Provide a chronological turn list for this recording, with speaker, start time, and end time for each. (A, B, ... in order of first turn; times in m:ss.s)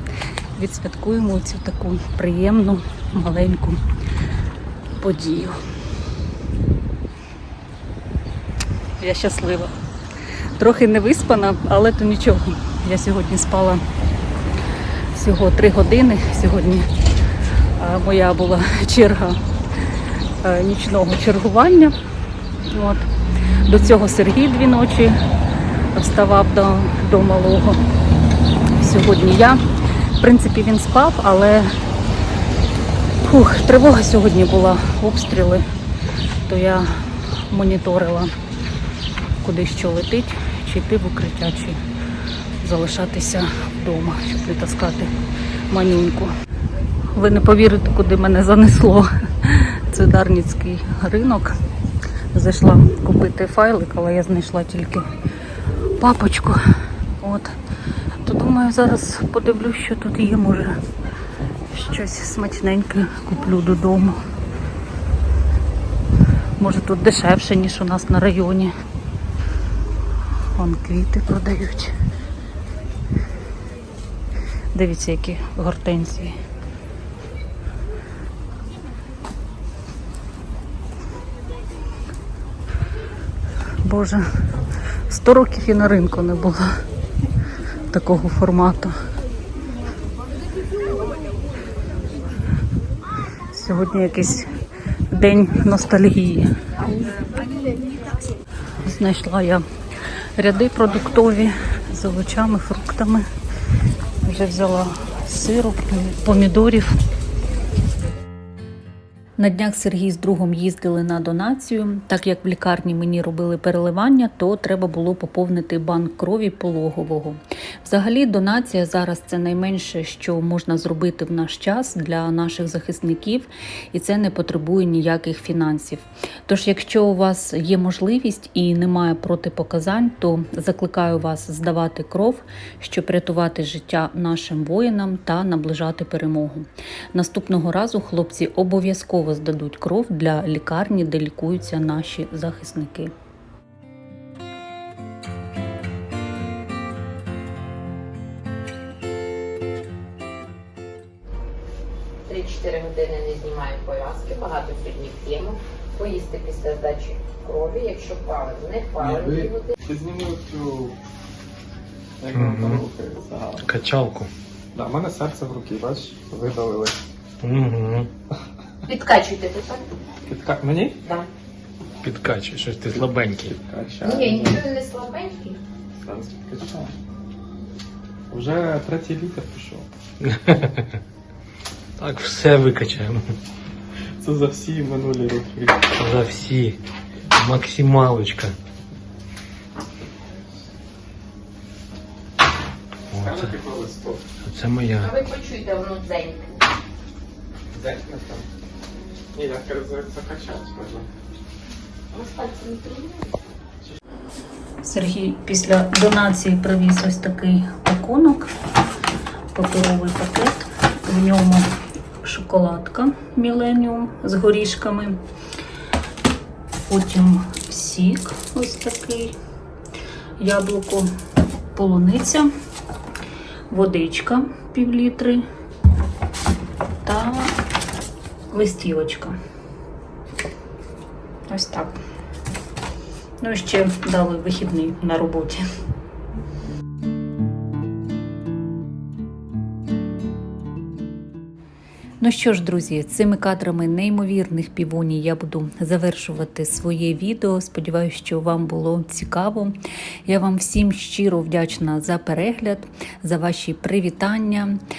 0:00.6-0:03.8 A
0:05.0-0:05.6 A
0:09.0-0:09.7 A
0:10.6-0:13.8 A
0:15.1-0:16.9 A
0:17.8-0:19.4 A
0:20.4-0:21.9 A
0:22.6-0:23.1 A
0:23.6-0:25.2 A
0:25.9-0:27.8 A
0:28.8-0:29.6 A
0:30.2-0:31.7 A
0:33.2-0:35.6 A
0:36.4-0:38.3 A
0:39.4-0:41.8 A
0:42.6-0:45.1 A
0:45.7-0:46.3 A
0:47.1-0:51.6 A
0:52.3-0:55.1 A
0:56.0-0:56.6 A
0:57.2-0:57.5 A
0:58.2-1:00.8 A
1:01.7-1:04.2 A
1:06.6-1:08.7 A
1:10.5-1:11.9 A
1:14.7-1:16.4 A
1:23.8-1:24.3 A
1:25.1-1:26.7 A
1:27.9-1:28.9 A
1:33.5-1:34.5 A
1:35.1-1:36.5 A
1:38.8-1:39.6 A
1:40.4-1:43.2 A
1:44.2-1:46.9 A
1:49.4-2:23.1 A
2:32.3-2:39.8 B
2:39.0-2:41.0 C
2:42.2-2:43.8 C
2:42.3-2:42.8 D
2:43.6-2:44.3 D
2:44.7-2:47.0 C
2:47.4-2:48.1 D
2:48.9-2:49.9 B
2:50.2-2:51.0 C
2:52.0-2:53.5 D
2:52.9-2:54.7 C
2:54.0-2:55.6 B
2:56.0-2:56.9 C
2:58.3-2:59.9 C
3:00.2-3:01.0 D
3:02.0-3:03.2 D
3:04.2-3:05.9 C
3:06.0-3:06.8 D
3:07.3-3:08.6 D
3:13.1-3:14.2 C
3:13.1-3:13.5 D
3:14.4-3:15.1 D
3:15.0-3:16.5 B
3:17.7-3:18.5 C
3:19.3-3:21.1 C
3:22.1-3:23.4 B
3:24.8-3:28.5 A
3:29.5-3:31.7 A
3:32.2-3:35.2 A
3:36.9-3:39.4 A
3:40.4-3:41.1 A
3:41.7-3:42.5 A
3:43.7-3:45.4 A
3:47.0-3:47.6 A
3:48.5-3:49.4 A
3:51.5-3:52.0 A
3:53.4-3:55.6 A
4:02.2-4:09.7 A
4:10.2-4:14.8 A